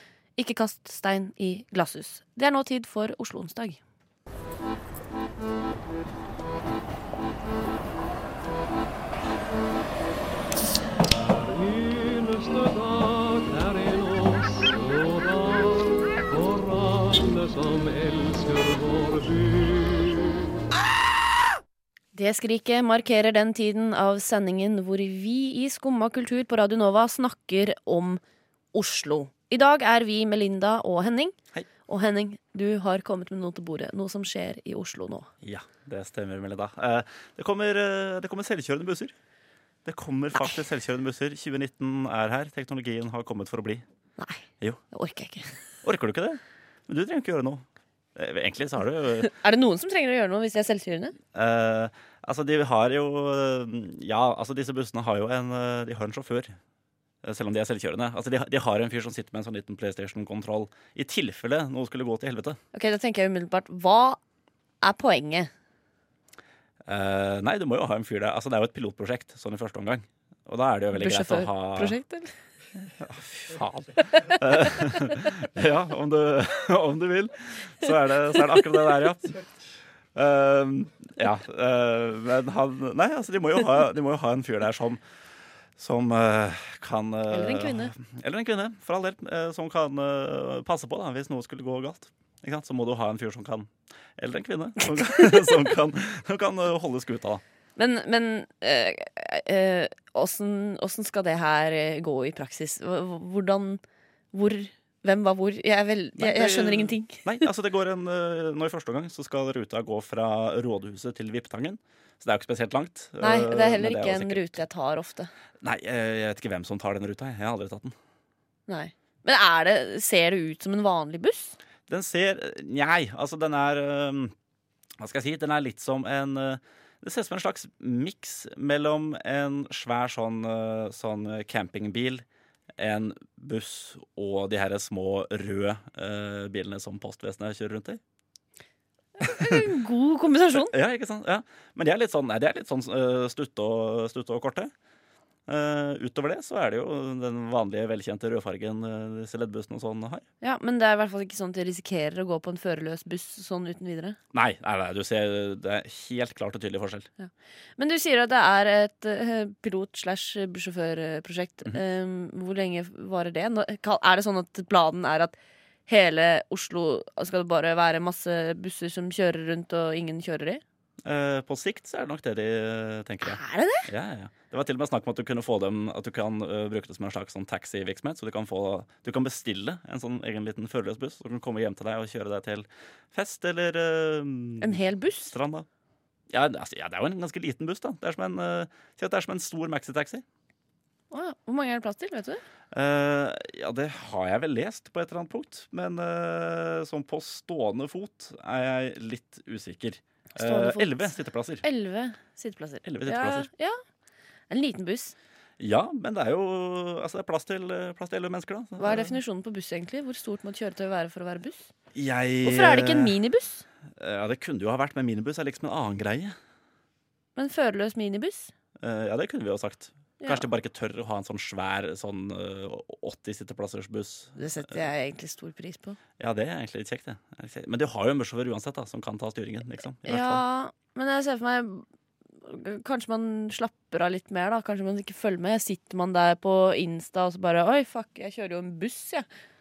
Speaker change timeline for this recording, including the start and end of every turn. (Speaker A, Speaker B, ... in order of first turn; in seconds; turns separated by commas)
Speaker A: 0.4-3.8, Speaker B: 11.2-20.1, Speaker A: 22.1-28.2, Speaker A: 28.7-31.4, Speaker A: 31.9-35.3, Speaker C: 35.4-39.1, Speaker C: 39.9-43.8, Speaker A: 44.2-45.5, Speaker C: 45.8-49.3, Speaker A: 49.2-51.1, Speaker C: 51.3-56.6, Speaker C: 57.2-62.6, Speaker A: 62.7-64.2, Speaker A: 64.8-65.5, Speaker C: 66.9-72.0, Speaker A: 70.9-72.3, Speaker C: 72.9-79.4, Speaker C: 80.2-85.0, Speaker C: 85.8-97.4, Speaker A: 87.3-87.9, Speaker A: 95.0-95.3, Speaker A: 97.8-103.8, Speaker A: 104.3-107.3, Speaker C: 106.2-114.6, Speaker A: 113.2-115.3, Speaker C: 115.6-118.0, Speaker A: 118.7-121.6, Speaker C: 121.9-124.3, Speaker C: 125.0-132.2, Speaker C: 132.8-138.0, Speaker A: 139.2-140.7, Speaker C: 139.3-139.7, Speaker C: 140.5-144.7, Speaker C: 145.5-150.2, Speaker A: 150.4-154.2, Speaker C: 154.3-157.1, Speaker A: 157.2-165.4, Speaker A: 165.9-170.6, Speaker C: 171.0-185.7, Speaker A: 173.2-173.9, Speaker A: 184.6-185.3, Speaker C: 186.3-190.2, Speaker A: 191.1-192.4, Speaker C: 192.7-201.6, Speaker A: 200.4-203.8, Speaker C: 202.8-203.5, Speaker A: 204.5-205.2, Speaker C: 205.6-209.2, Speaker A: 208.8-211.7, Speaker C: 211.9-213.2, Speaker A: 212.4-213.7, Speaker C: 214.0-216.4, Speaker A: 217.4-218.5, Speaker C: 218.8-224.8, Speaker A: 220.2-220.4, Speaker A: 224.4-226.0, Speaker C: 226.2-230.4, Speaker A: 230.1-231.9, Speaker A: 232.4-239.3